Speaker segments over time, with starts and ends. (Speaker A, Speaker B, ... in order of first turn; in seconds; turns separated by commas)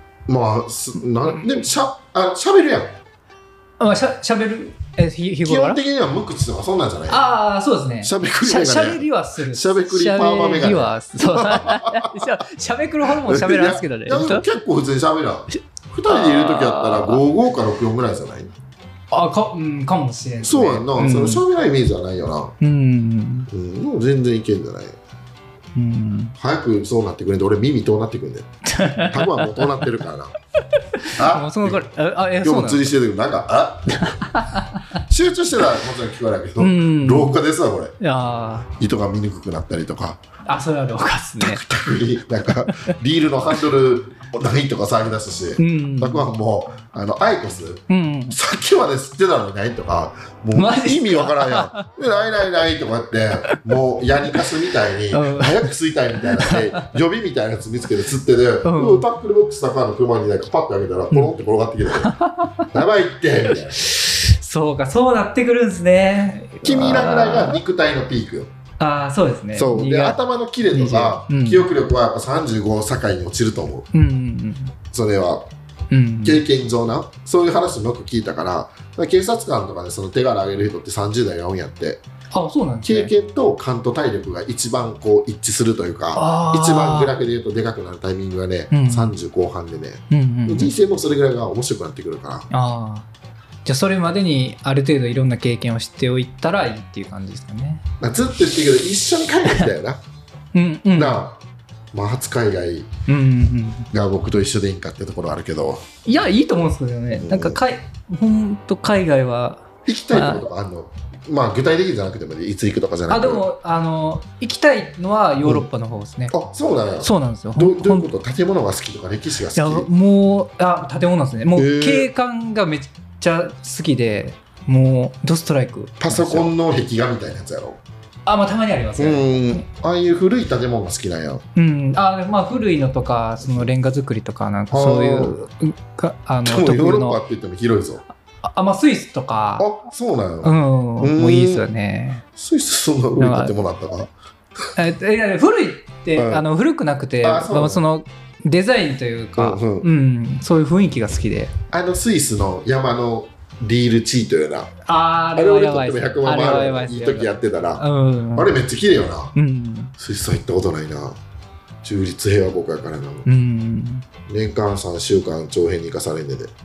Speaker A: 0.3-3.0, Speaker B: 3.8-5.8, Speaker A: 5.4-7.2, Speaker B: 7.1-14.4, Speaker A: 8.0-12.3, Speaker A: 13.0-18.5, Speaker B: 15.5-17.2, Speaker B: 19.1-21.4, Speaker A: 20.4-22.5, Speaker B: 22.6-23.5, Speaker A: 23.5-24.9, Speaker B: 25.7-26.3, Speaker A: 26.4-30.3, Speaker B: 28.6-30.0, Speaker B: 30.9-33.0, Speaker A: 31.0-31.9, Speaker A: 32.4-34.4, Speaker B: 34.0-35.0, Speaker A: 35.0-37.9, Speaker B: 36.6-37.4, Speaker B: 38.0-38.7, Speaker A: 38.7-40.2, Speaker B: 40.5-41.6, Speaker A: 41.4-62.1, Speaker B: 42.7-43.0, Speaker B: 45.6-46.3, Speaker B: 47.9-48.4, Speaker B: 50.5-51.9, Speaker B: 55.1-56.9, Speaker B: 58.6-59.1, Speaker B: 61.9-62.7, Speaker A: 62.7-63.9, Speaker B: 63.8-67.6, Speaker A: 66.6-68.5, Speaker B: 68.8-70.2, Speaker A: 69.5-73.9, Speaker B: 70.7-71.6, Speaker B: 73.9-74.7, Speaker A: 74.9-75.5, Speaker B: 75.9-76.4, Speaker A: 76.2-82.0, Speaker B: 82.3-83.1, Speaker A: 82.8-92.5, Speaker B: 86.1-87.1, Speaker B: 88.7-89.1, Speaker B: 90.1-90.7, Speaker B: 92.5-93.1, Speaker B: 93.6-97.8, Speaker A: 98.0-100.0, Speaker B: 100.5-101.2, Speaker A: 100.9-101.4, Speaker A: 101.9-102.9, Speaker B: 103.1-103.9, Speaker A: 103.9-105.8, Speaker B: 106.0-110.4, Speaker A: 107.2-107.6, Speaker A: 109.8-113.4, Speaker B: 113.1-116.3, Speaker A: 116.3-119.9, Speaker B: 117.0-118.1, Speaker B: 119.5-126.5, Speaker A: 121.5-122.1, Speaker A: 126.0-127.8, Speaker B: 128.2-129.6, Speaker A: 129.0-131.4, Speaker B: 131.5-137.2, Speaker A: 133.4-133.7, Speaker A: 134.7-135.4, Speaker A: 136.4-138.0, Speaker B: 138.4-139.7, Speaker A: 139.6-141.6, Speaker B: 140.4-142.2, Speaker A: 142.3-144.1, Speaker B: 143.2-143.5, Speaker B: 144.8-151.5, Speaker A: 146.2-146.4, Speaker A: 147.2-147.8, Speaker A: 149.4-149.9, Speaker A: 151.7-154.7, Speaker B: 154.8-158.5, Speaker A: 155.3-159.3, Speaker B: 159.3-159.9, Speaker A: 160.0-161.2, Speaker A: 161.8-163.3, Speaker B: 163.2-164.0, Speaker A: 164.3-166.5